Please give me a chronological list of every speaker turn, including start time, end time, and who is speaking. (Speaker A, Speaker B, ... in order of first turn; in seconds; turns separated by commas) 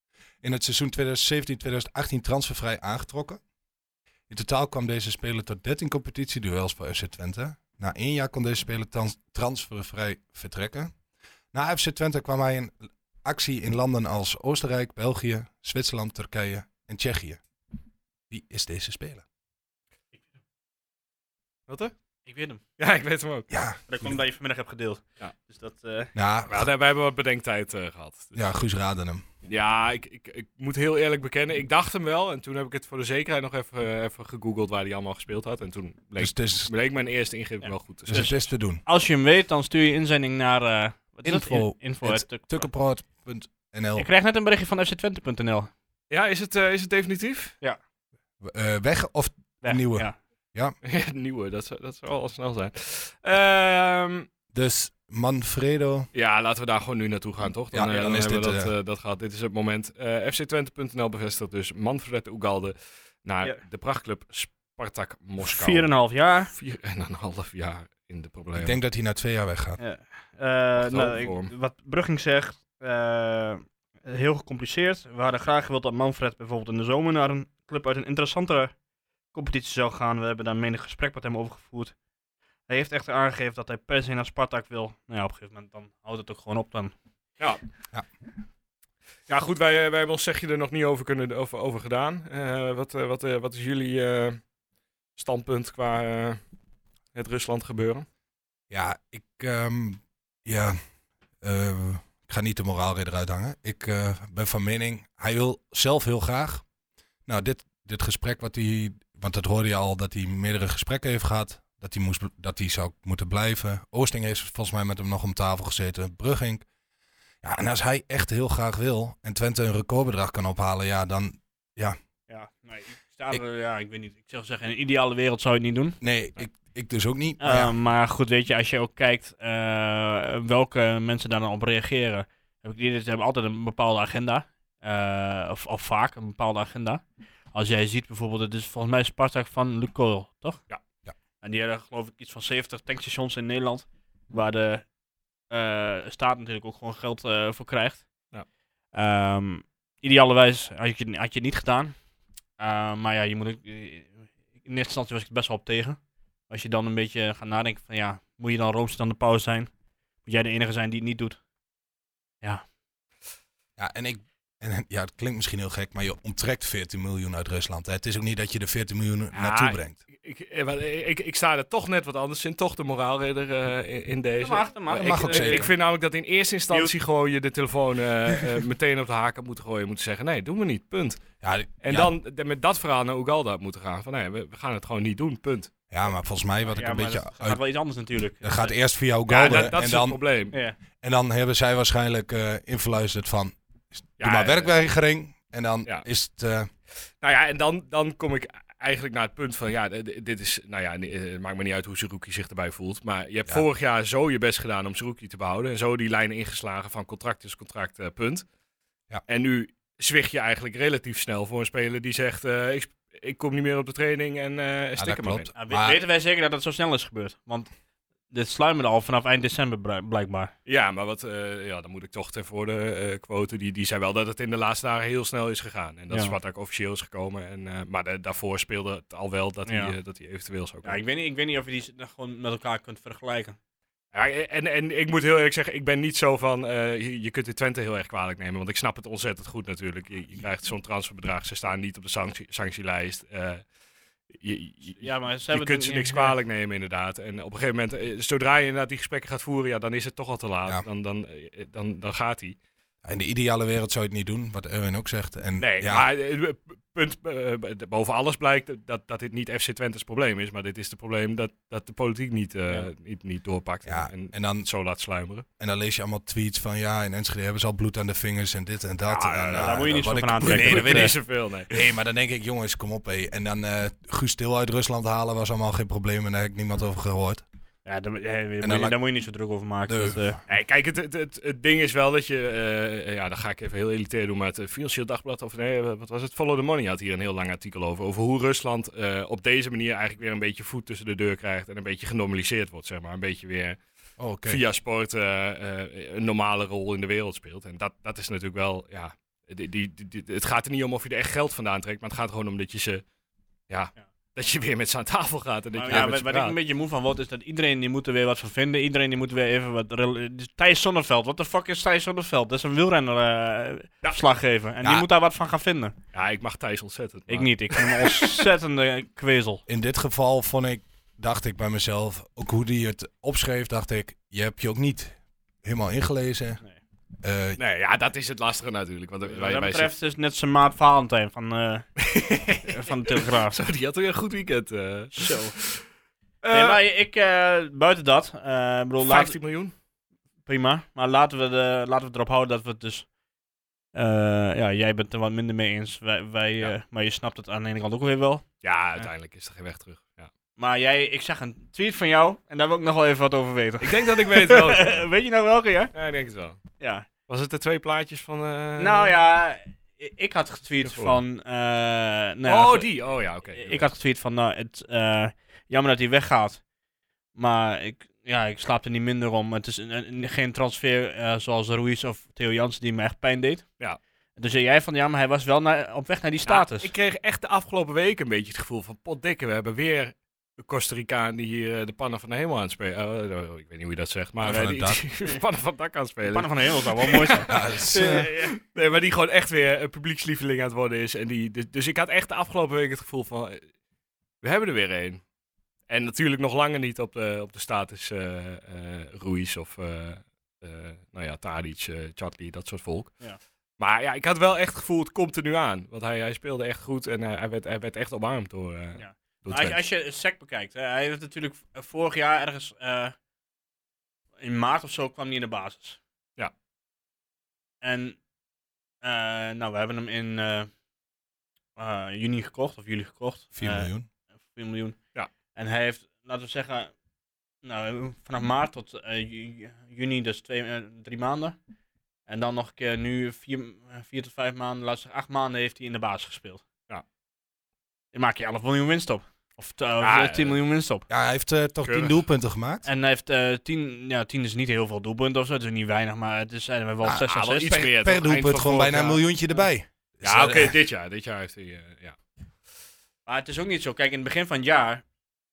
Speaker A: 0.4-3.4, Speaker A: 4.3-10.9, Speaker A: 11.5-17.4, Speaker A: 18.3-19.2, Speaker B: 21.7-21.9, Speaker C: 22.3-22.6, Speaker B: 22.8-23.5, Speaker A: 23.5-24.2, Speaker C: 23.9-26.1, Speaker A: 26.1-26.7, Speaker B: 26.5-28.4, Speaker A: 28.3-29.2, Speaker B: 29.4-38.3, Speaker A: 36.2-36.7, Speaker C: 37.6-42.7, Speaker A: 38.1-38.8, Speaker A: 41.2-44.1, Speaker C: 44.0-45.7, Speaker B: 46.1-47.6, Speaker A: 48.4-50.7, Speaker C: 49.6-50.2, Speaker B: 50.8-54.3, Speaker A: 54.5-56.1, Speaker B: 56.1-65.9, Speaker A: 57.7-58.7, Speaker C: 65.4-66.5, Speaker B: 66.5-68.8, Speaker A: 68.6-69.8, Speaker C: 69.8-78.7, Speaker B: 70.8-71.5, Speaker C: 79.3-81.9, Speaker C: 82.7-86.9, Speaker B: 89.3-94.4, Speaker B: 95.2-96.4, Speaker B: 97.1-98.0, Speaker A: 98.7-100.8, Speaker A: 101.4-106.6, Speaker A: 107.2-116.6, Speaker A: 117.4-122.0, Speaker C: 122.3-126.0, Speaker A: 126.0-127.7, Speaker C: 127.4-140.6, Speaker C: 141.4-144.8, Speaker C: 145.5-148.1, Speaker C: 148.9-151.9, Speaker C: 152.6-159.7, Speaker C: 160.2-161.4, Speaker A: 163.8-170.0, Speaker B: 169.3-181.2, Speaker C: 174.4-175.7, Speaker A: 175.0-175.7, Speaker A: 181.4-182.1, Speaker B: 181.8-185.7, Speaker A: 185.9-187.6, Speaker C: 186.7-188.8, Speaker A: 188.4-190.2, Speaker C: 189.3-189.8, Speaker B: 189.3-190.6, Speaker C: 190.5-190.8, Speaker A: 191.0-196.7, Speaker B: 194.2-194.7, Speaker B: 197.2-208.4, Speaker B: 209.3-215.5, Speaker A: 215.0-216.0, Speaker C: 215.5-217.7, Speaker C: 218.3-220.5, Speaker B: 220.7-231.0, Speaker C: 229.7-229.9, Speaker C: 230.8-233.6, Speaker B: 234.1-243.6, Speaker B: 244.3-252.6, Speaker C: 245.0-246.3, Speaker A: 253.0-256.1, Speaker B: 255.6-265.4, Speaker A: 263.8-264.7, Speaker A: 265.6-277.4, Speaker B: 269.1-271.8, Speaker C: 269.4-271.1, Speaker C: 277.8-280.4, Speaker A: 278.6-278.9, Speaker A: 279.9-280.2, Speaker B: 280.5-293.8, Speaker A: 294.2-294.6, Speaker B: 294.4-303.0, Speaker B: 303.7-306.6, Speaker C: 305.8-315.9, Speaker A: 314.8-315.1, Speaker B: 316.1-318.4, Speaker C: 317.3-319.6, Speaker A: 319.7-326.6, Speaker A: 327.2-327.6, Speaker B: 327.6-329.9, Speaker C: 329.3-332.0, Speaker B: 332.0-335.9, Speaker C: 332.7-333.6, Speaker C: 335.1-335.6, Speaker B: 336.4-336.8, Speaker C: 336.5-339.4, Speaker B: 339.0-339.7, Speaker C: 340.4-343.1, Speaker C: 343.9-348.4, Speaker B: 348.6-350.3, Speaker C: 350.6-355.9, Speaker B: 353.8-355.1, Speaker B: 355.9-356.6, Speaker C: 356.8-357.1, Speaker B: 357.3-359.1, Speaker C: 358.8-363.0, Speaker B: 360.8-361.2, Speaker B: 362.4-363.8, Speaker C: 363.5-366.6, Speaker C: 367.3-373.7, Speaker C: 374.4-376.9, Speaker B: 376.4-393.7, Speaker A: 384.4-385.0, Speaker C: 386.3-388.5, Speaker A: 387.5-388.3, Speaker B: 394.4-395.2, Speaker B: 395.9-403.1, Speaker B: 403.8-409.8, Speaker C: 408.9-413.1, Speaker C: 414.4-416.0, Speaker C: 417.8-418.2, Speaker C: 419.0-420.7, Speaker C: 421.8-423.9, Speaker A: 423.5-424.1, Speaker C: 424.5-425.0, Speaker C: 425.5-426.9, Speaker C: 427.6-431.6, Speaker C: 432.3-436.6, Speaker C: 438.1-441.0, Speaker B: 440.0-440.6, Speaker A: 441.1-442.9, Speaker B: 441.8-442.1, Speaker C: 442.8-447.8, Speaker A: 447.0-450.7, Speaker B: 447.3-449.2, Speaker B: 450.2-452.2, Speaker C: 453.3-455.0